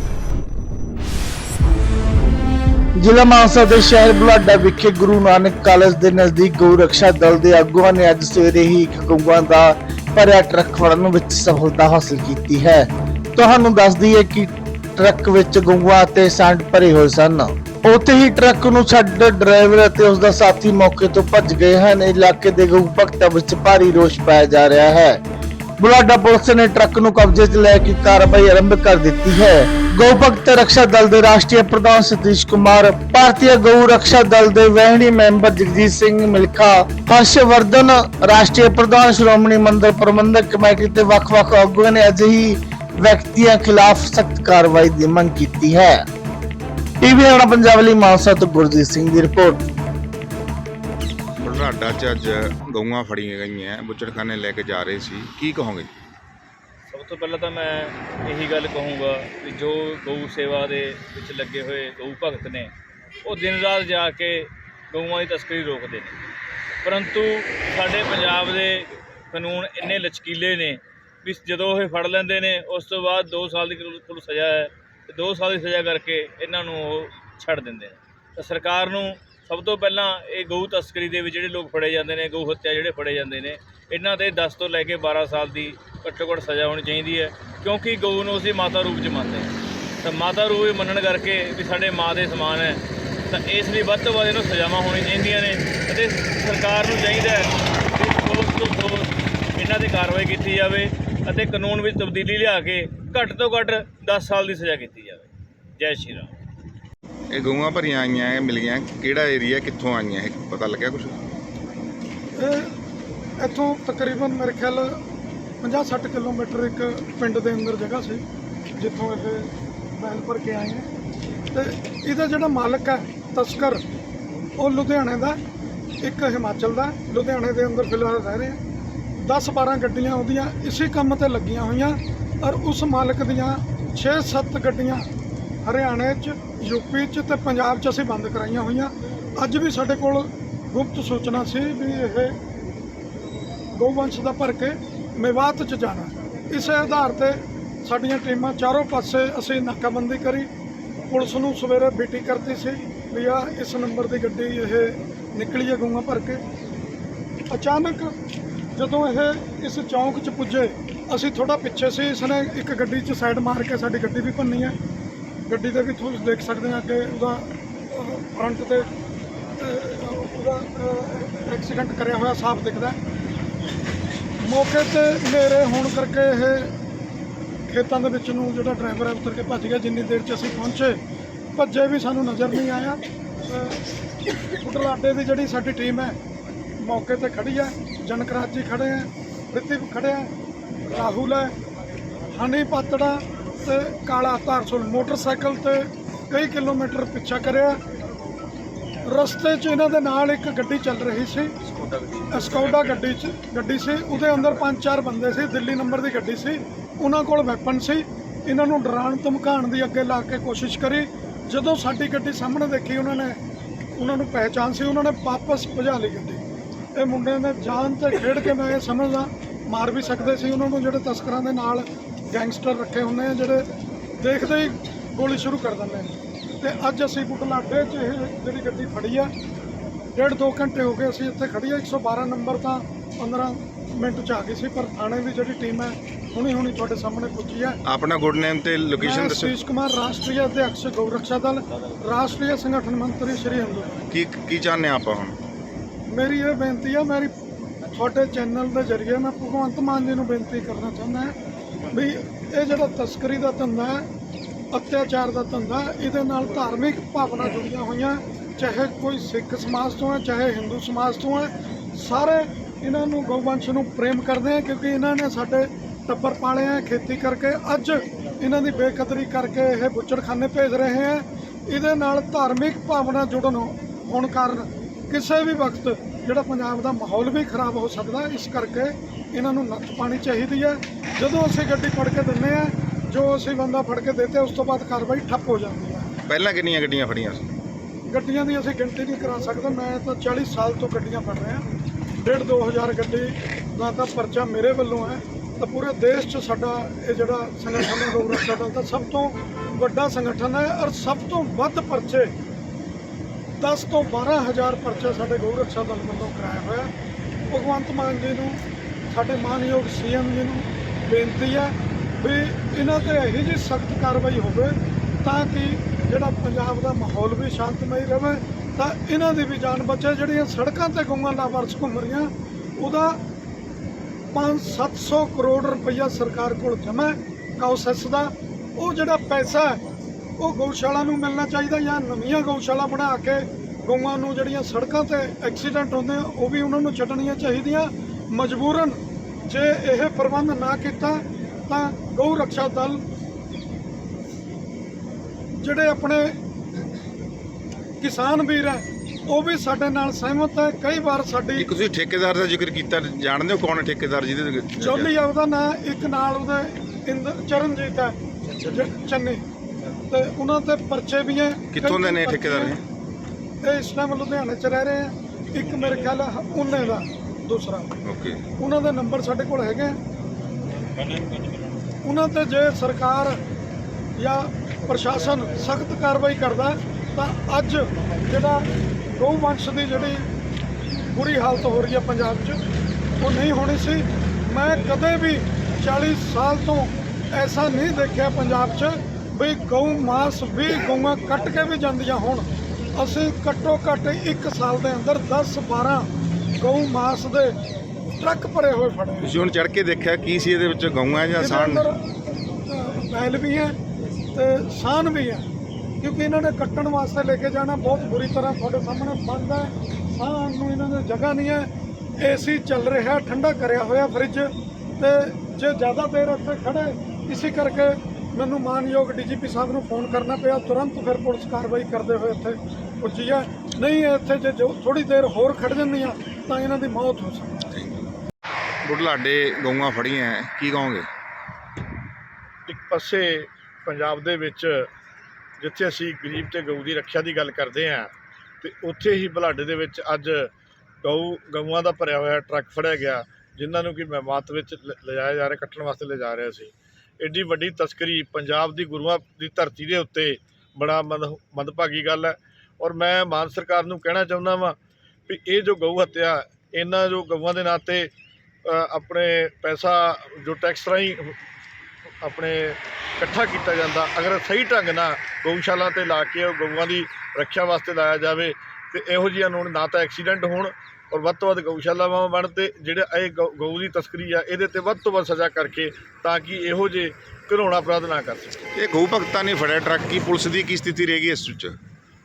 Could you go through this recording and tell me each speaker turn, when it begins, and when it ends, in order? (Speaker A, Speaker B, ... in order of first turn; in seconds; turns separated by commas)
Speaker A: 3.0-25.2, Speaker A: 25.8-46.0, Speaker A: 47.0-49.6, Speaker B: 51.4-55.9, Speaker C: 56.9-62.7, Speaker C: 63.2-66.2, Speaker C: 66.8-105.3, Speaker C: 105.8-106.3, Speaker B: 107.3-111.1, Speaker D: 112.3-112.7, Speaker D: 113.4-115.0, Speaker D: 115.6-118.2, Speaker D: 118.8-120.9, Speaker D: 121.5-123.8, Speaker D: 124.6-125.4, Speaker D: 126.0-128.6, Speaker D: 129.2-135.1, Speaker D: 135.6-142.3, Speaker D: 143.7-150.5, Speaker D: 151.1-156.4, Speaker D: 157.5-158.1, Speaker D: 158.7-164.8, Speaker D: 165.5-168.9, Speaker D: 169.6-173.0, Speaker D: 174.4-176.7, Speaker D: 177.7-181.0, Speaker D: 181.5-183.8, Speaker D: 184.4-186.2, Speaker D: 186.8-190.3, Speaker D: 190.8-191.5, Speaker D: 192.3-197.8, Speaker D: 199.0-201.5, Speaker C: 201.8-202.4, Speaker D: 202.3-213.4, Speaker D: 213.9-216.4, Speaker D: 216.9-223.7, Speaker D: 224.2-229.3, Speaker D: 230.2-237.8, Speaker B: 237.9-239.6, Speaker D: 239.0-243.9, Speaker B: 244.1-245.4, Speaker D: 246.1-247.3, Speaker D: 247.9-251.3, Speaker D: 251.9-254.1, Speaker D: 254.7-286.1, Speaker B: 286.3-287.5, Speaker D: 288.1-291.6, Speaker D: 292.2-302.3, Speaker D: 303.6-306.9, Speaker D: 307.5-323.2, Speaker D: 324.3-329.8, Speaker D: 330.4-343.0, Speaker D: 345.6-346.4, Speaker D: 348.0-351.7, Speaker B: 351.6-355.1, Speaker D: 354.8-359.4, Speaker D: 360.1-362.8, Speaker B: 361.7-362.8, Speaker D: 363.6-367.9, Speaker B: 368.0-368.4, Speaker D: 368.6-370.0, Speaker D: 372.0-373.4, Speaker D: 374.1-380.3, Speaker D: 380.9-382.6, Speaker D: 383.2-397.6, Speaker D: 398.2-399.3, Speaker B: 399.2-401.9, Speaker D: 401.4-403.8, Speaker D: 404.3-405.4, Speaker D: 406.0-427.7, Speaker B: 427.7-428.1, Speaker B: 428.8-431.1, Speaker E: 432.7-434.9, Speaker E: 435.6-438.1, Speaker E: 438.6-440.5, Speaker E: 441.0-454.8, Speaker E: 455.3-458.1, Speaker E: 458.6-461.4, Speaker E: 462.2-478.6, Speaker B: 478.7-481.8